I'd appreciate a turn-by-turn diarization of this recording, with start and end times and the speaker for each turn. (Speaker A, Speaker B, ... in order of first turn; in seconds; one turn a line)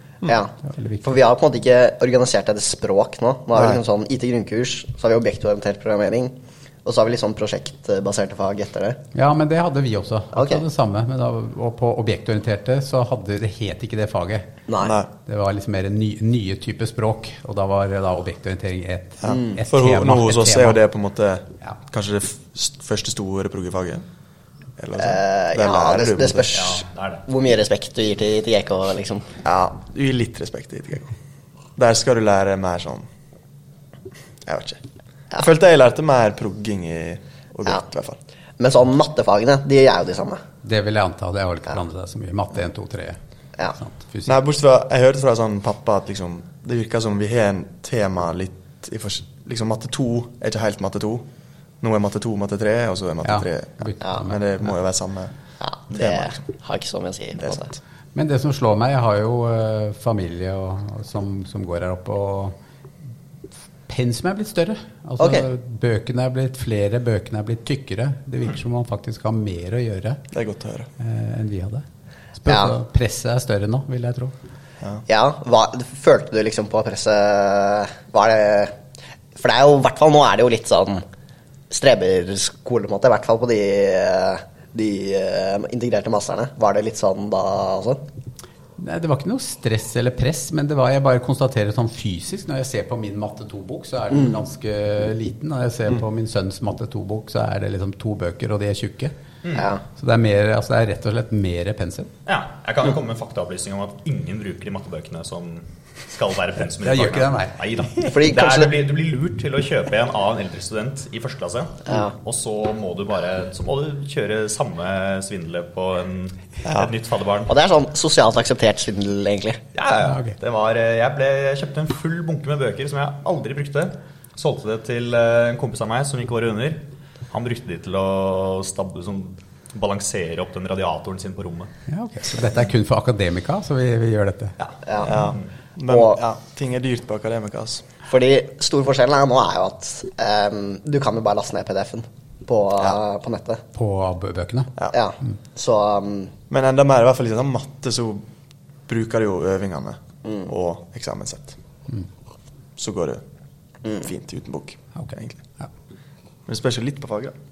Speaker A: 0.2-9.0
Speaker B: 0.6-1.1
Speaker B: 9.1-14.6
Speaker A: 10.3-10.6
Speaker A: 14.7-14.9
Speaker C: 14.8-15.1
Speaker B: 15.2-20.8
Speaker C: 19.2-24.0
Speaker A: 19.2-19.6
Speaker C: 24.8-26.5
Speaker A: 25.0-29.3
Speaker D: 26.5-27.2
Speaker C: 29.4-31.1
Speaker C: 31.8-33.0
Speaker C: 34.5-34.8
Speaker C: 35.4-38.2
Speaker A: 38.6-40.4
Speaker B: 40.6-43.2
Speaker B: 43.7-44.4
Speaker C: 44.2-51.2
Speaker C: 51.8-55.3
Speaker B: 53.2-54.7
Speaker A: 55.6-57.7
Speaker C: 55.9-56.4
Speaker C: 57.4-57.8
Speaker B: 58.1-62.5
Speaker B: 63.9-70.2
Speaker A: 65.2-65.5
Speaker C: 70.3-70.9
Speaker B: 71.0-71.8
Speaker B: 72.3-74.3
Speaker A: 72.5-72.7
Speaker A: 75.1-78.7
Speaker A: 79.3-81.0
Speaker A: 81.7-88.0
Speaker B: 88.8-99.1
Speaker D: 99.4-99.7
Speaker A: 99.5-99.8
Speaker B: 100.0-102.1
Speaker D: 102.2-117.5
Speaker B: 106.7-108.1
Speaker A: 108.1-108.7
Speaker A: 111.9-112.1
Speaker C: 116.7-116.9
Speaker A: 117.5-119.6
Speaker D: 119.7-131.7
Speaker B: 120.0-120.3
Speaker B: 131.9-134.6
Speaker D: 134.6-135.4
Speaker A: 134.8-135.2
Speaker C: 135.0-137.8
Speaker A: 135.9-136.2
Speaker A: 138.1-143.6
Speaker B: 143.7-144.7
Speaker A: 144.9-146.3
Speaker C: 146.5-148.2
Speaker C: 148.9-151.6
Speaker A: 150.2-150.5
Speaker C: 152.8-153.2
Speaker C: 153.9-155.4
Speaker B: 154.9-155.6
Speaker C: 156.5-157.3